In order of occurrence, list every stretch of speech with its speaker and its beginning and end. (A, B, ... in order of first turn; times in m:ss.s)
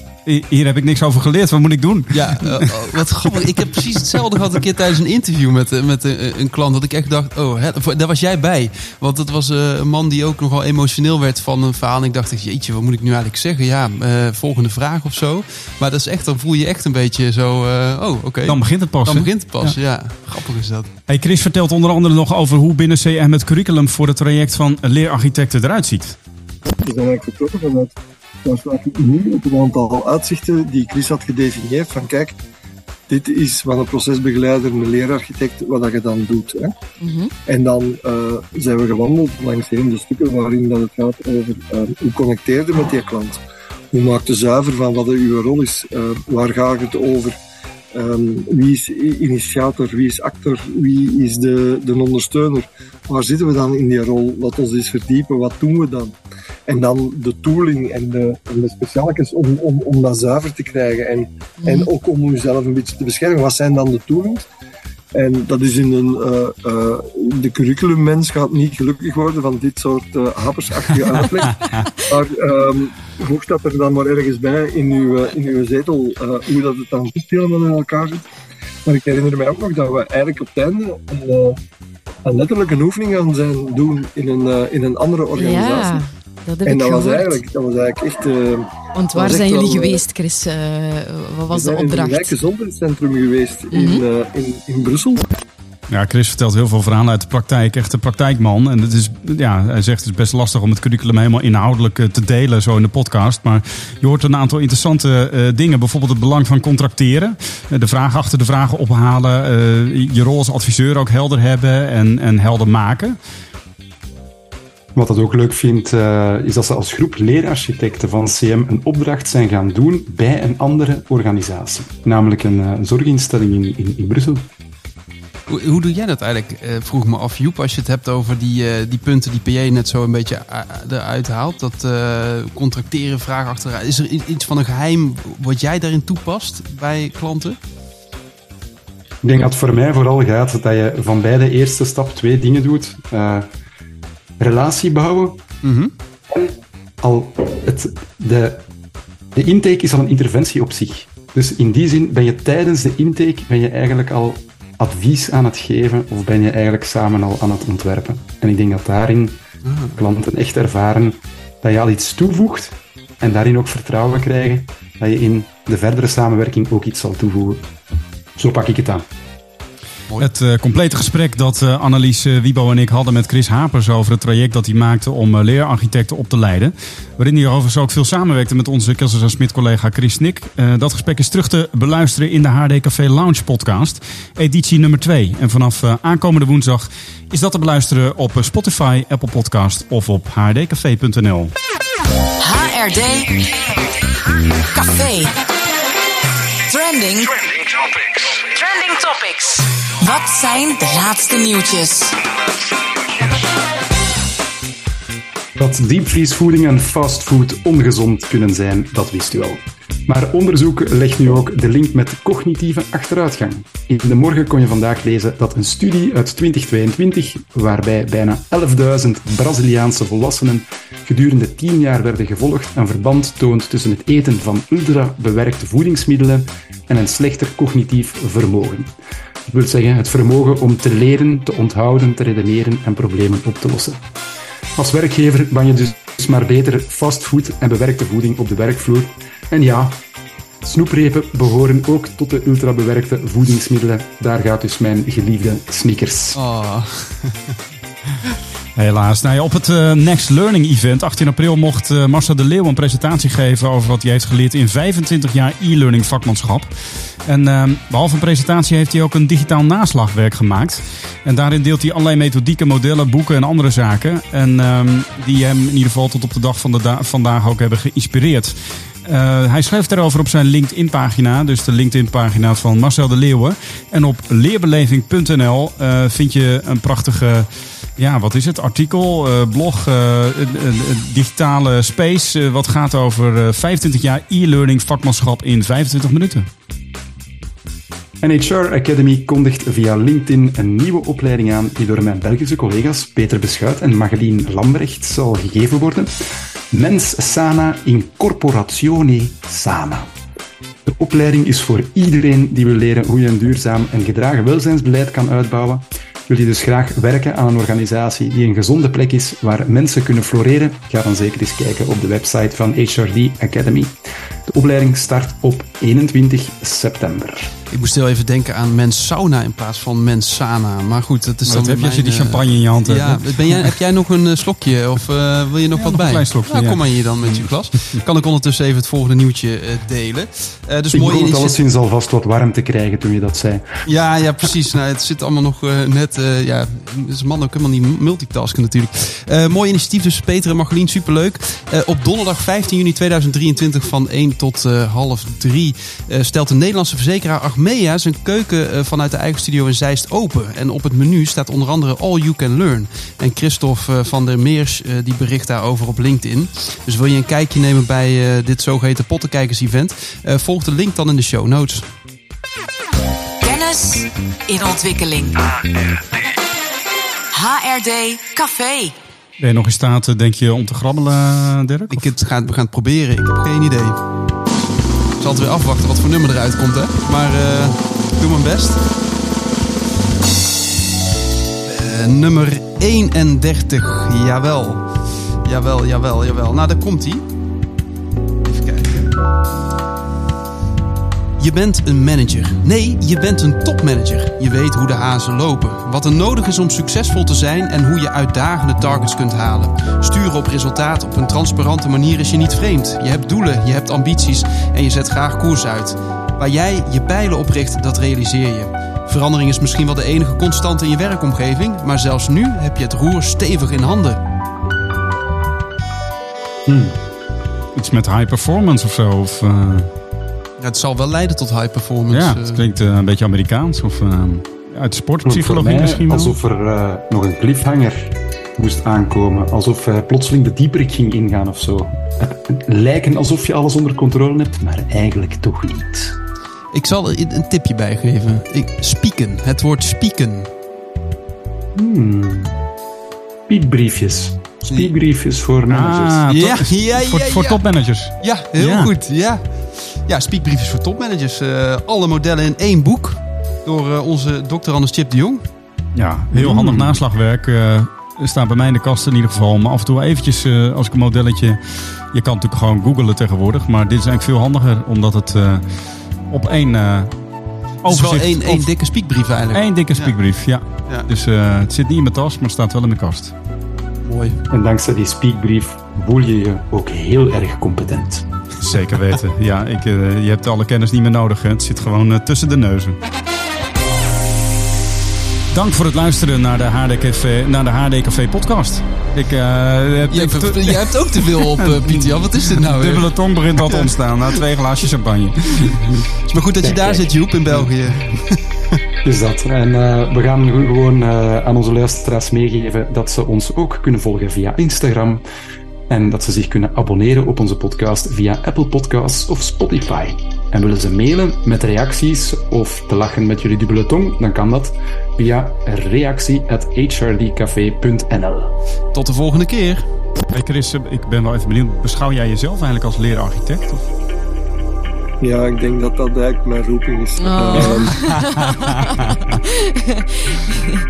0:00.3-0:02.6 A
0:02.1-0:20.9 B
0:18.5-0:19.8 A
0:21.1-0:26.2 A
0:26.8-0:27.9 C
0:28.4-0:32.4 C
0:33.1-0:36.7 C
0:37.0-0:37.3 D
0:37.5-0:43.4 C
0:43.9-0:47.4 C
0:47.9-0:56.2 C
0:56.7-1:04.4 C
1:01.6-1:01.9 D
1:05.1-1:18.3 C
1:18.9-1:21.6 C
1:22.2-1:26.0 C
1:25.3-1:27.4 D
1:26.6-1:30.0 C
1:29.0-1:32.3 D
1:31.5-1:35.3 C
1:33.7-1:34.0 D
1:35.9-1:53.2 A
1:55.0-2:04.5 E
2:05.5-2:17.6 B
2:19.2-2:23.5 E
2:24.4-2:25.4 E
2:25.6-2:25.9 B
2:26.3-2:28.6 E
2:29.4-2:39.4 E
2:39.6-2:40.0 B
2:40.0-2:47.6 E
2:48.4-2:49.1 E
2:50.2-3:11.5 A
3:12.4-3:13.8 F
3:14.7-3:15.3 F
3:16.7-3:17.6 F
3:18.4-3:22.2 F
3:25.6-3:48.9 E
3:49.5-3:54.0 E
3:54.8-4:00.0 E
4:00.6-4:06.4 E
4:06.4-4:07.6 B
4:08.8-4:16.7 A
4:17.3-4:46.5 A
4:48.2-4:56.1 E
4:56.7-5:00.1 E
5:00.9-5:14.0 E
5:14.5-5:17.5 E
5:17.7-5:31.6 B
5:21.5-5:23.7 A
5:25.8-5:28.0 A
5:30.9-5:33.7 E
5:33.9-6:01.9 B
6:03.4-6:05.4 F
6:07.3-6:08.9 F
6:09.4-6:12.1 A
6:11.9-6:14.0 B
6:15.2-6:18.8 B
6:21.6-6:24.9 B
6:25.4-6:27.3 B
6:28.4-6:29.1 B
6:31.4-6:54.2 B
6:56.7-6:57.0 E
6:57.8-6:59.9 A
7:00.6-7:02.6 B
7:02.1-7:06.4 A
7:05.2-7:16.2 E
7:16.7-7:20.5 B
7:21.8-7:22.6 E
7:23.5-7:26.2 E
7:25.7-7:28.9 A
7:26.3-7:27.6 B
7:28.2-7:35.4 B
7:36.0-7:41.6 A
7:36.4-7:36.9 B
7:42.1-7:45.6 A
7:46.3-7:47.1 A
7:47.8-7:48.7 A
7:47.9-7:50.2 B
7:49.5-7:53.3 A
7:54.0-7:54.4 B
7:54.5-7:58.3 E
7:58.6-8:03.0 A
8:05.5-8:15.9 A
8:10.1-8:13.1 B
8:13.6-8:14.4 B
8:16.2-8:18.5 B
8:16.6-8:17.1 E
8:19.0-8:25.2 E
8:25.9-8:38.5 E
8:38.9-8:39.8 B
8:40.3-8:43.8 A
8:45.2-8:48.0 C
8:47.2-8:50.7 D
8:47.6-8:49.3 A